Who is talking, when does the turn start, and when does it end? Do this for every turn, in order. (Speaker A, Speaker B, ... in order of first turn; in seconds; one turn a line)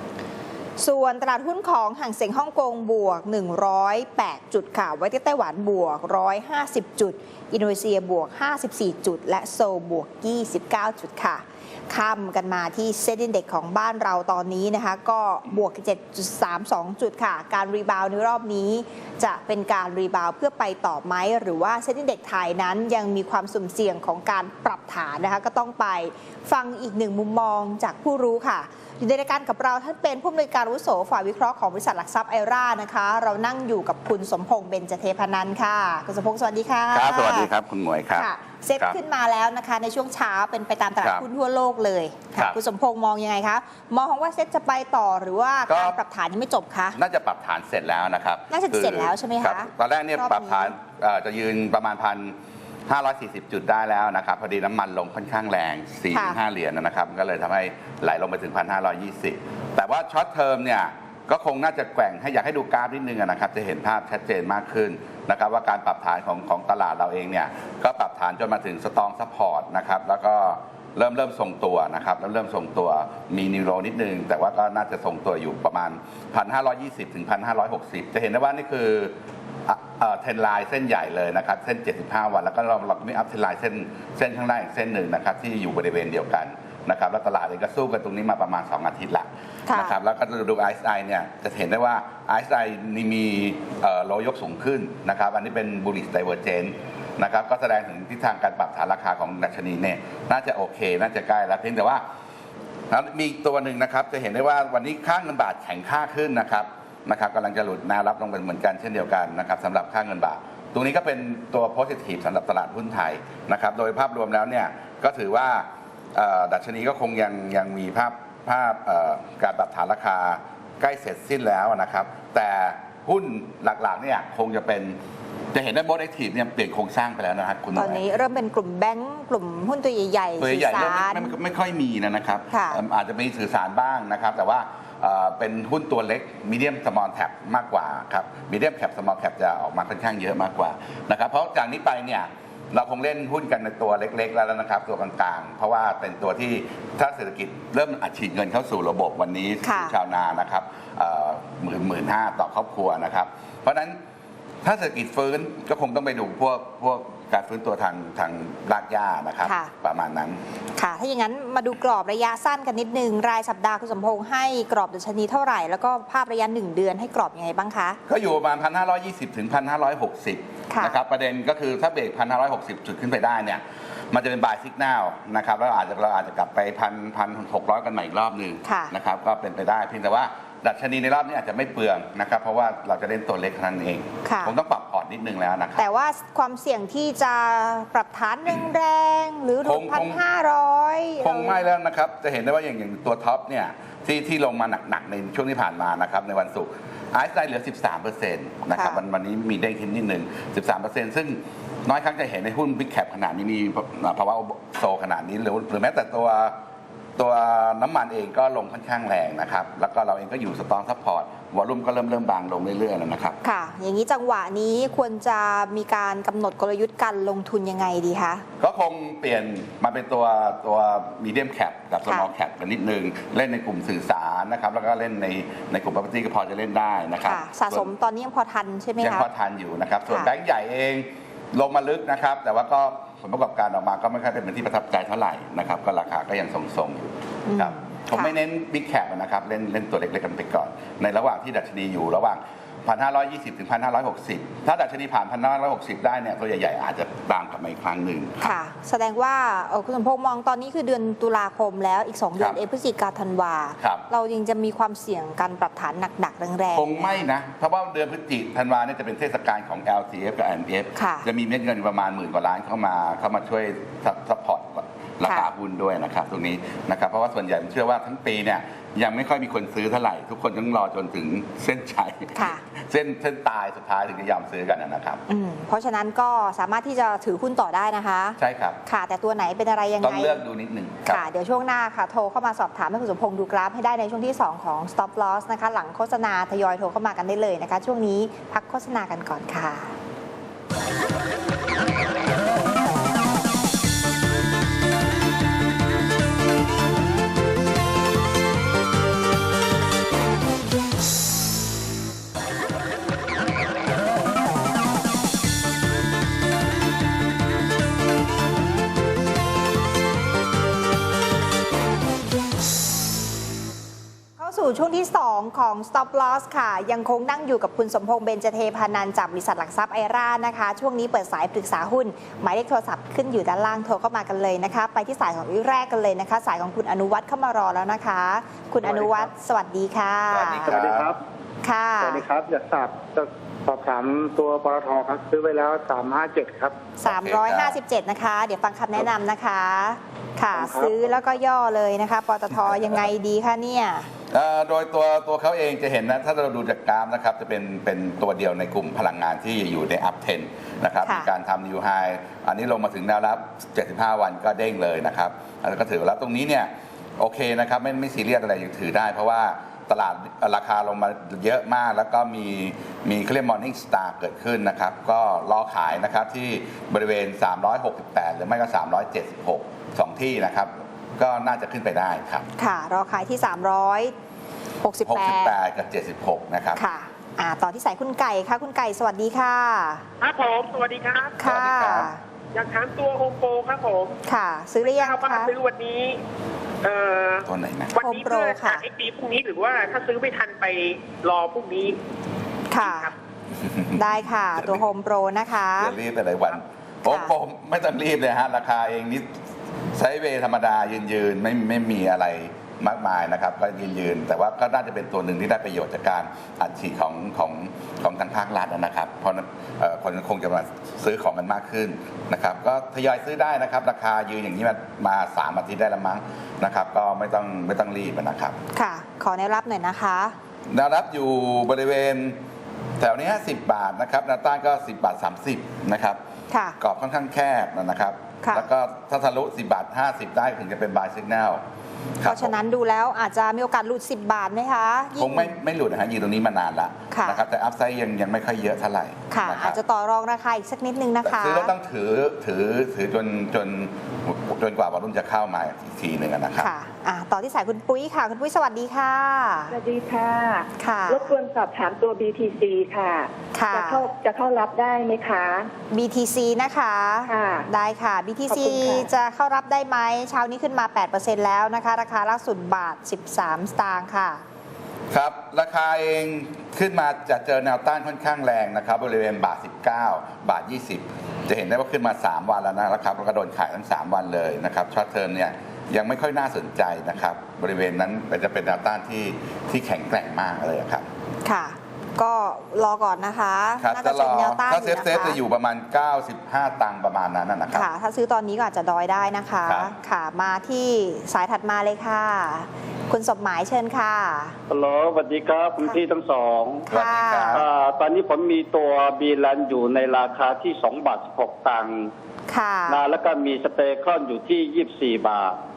Speaker A: 0.8-37.5
Speaker B: 36.9-38.3
Speaker A: 38.1-47.0
Speaker B: 45.7-46.0
Speaker B: 47.0-52.4
Speaker A: 48.5-50.7
Speaker B: 52.9-79.1
Speaker A: 56.1-56.4
Speaker B: 79.7-102.0
Speaker A: 89.7-90.0
Speaker B: 102.9-125.0
Speaker B: 125.5-128.0
Speaker A: 127.8-131.3
Speaker B: 130.4-154.0
Speaker A: 132.5-132.8
Speaker A: 149.6-150.0
Speaker B: 154.6-160.4
Speaker A: 159.4-159.7
Speaker A: 160.8-168.0
Speaker B: 168.1-185.8
Speaker A: 170.7-171.0
Speaker A: 178.6-178.9
Speaker A: 184.2-184.6
Speaker A: 185.8-191.6
Speaker B: 189.6-190.2
Speaker B: 191.2-206.6
Speaker A: 198.7-199.0
Speaker B: 207.2-213.4
Speaker A: 213.4-218.4
Speaker B: 218.6-227.9
Speaker A: 227.2-229.3
Speaker B: 229.0-248.4
Speaker A: 237.5-238.3
Speaker A: 248.4-257.2
Speaker B: 256.7-275.2
Speaker A: 260.9-261.3
Speaker A: 272.4-272.6
Speaker A: 275.3-280.4
Speaker B: 278.4-278.8
Speaker B: 280.0-281.2
Speaker A: 281.1-289.9
Speaker A: 314.4-330.8
Speaker C: 328.9-329.3
Speaker B: 330.3-331.1
Speaker A: 331.6-332.2
Speaker C: 332.0-336.8
Speaker A: 337.0-344.1
Speaker B: 337.1-337.8
Speaker C: 340.5-341.2
Speaker B: 342.7-343.0
Speaker B: 344.3-372.5
Speaker A: 372.6-374.1
Speaker A: 374.8-375.6
Speaker B: 375.1-376.8
Speaker A: 376.8-380.0
Speaker D: 380.2-381.4
Speaker A: 381.4-382.2
Speaker B: 381.4-382.1
Speaker D: 382.6-384.2
Speaker A: 384.3-385.5
Speaker D: 384.8-386.2
Speaker D: 386.8-392.0
Speaker B: 387.5-388.0
Speaker A: 388.0-388.9
Speaker A: 392.7-393.1
Speaker D: 392.8-393.1
Speaker B: 393.7-394.0
Speaker A: 394.0-396.0
Speaker B: 394.6-394.8
Speaker B: 395.8-399.3
Speaker A: 397.1-397.3
Speaker B: 399.9-418.6
Speaker A: 418.7-420.4
Speaker B: 420.7-422.4
Speaker B: 423.0-426.2
Speaker A: 426.5-426.8
Speaker B: 426.8-431.6
Speaker A: 428.4-428.7
Speaker B: 432.2-432.5
Speaker A: 432.2-435.6
Speaker B: 435.2-439.8
Speaker A: 437.1-437.4
Speaker A: 439.3-441.7
Speaker B: 441.2-446.7
Speaker A: 446.6-449.8
Speaker E: 449.7-455.7
Speaker A: 450.8-451.3
Speaker A: 453.5-454.1
Speaker A: 455.9-464.4
Speaker E: 457.3-457.7
Speaker E: 458.5-459.1
Speaker B: 465.1-481.1
Speaker A: 481.4-485.4
Speaker B: 483.8-487.9
Speaker A: 487.7-494.6
Speaker B: 489.6-489.9
Speaker F: 494.7-496.9
Speaker B: 496.9-497.6
Speaker A: 496.9-497.6
Speaker F: 497.5-502.1
Speaker A: 502.5-503.1
Speaker F: 502.9-505.6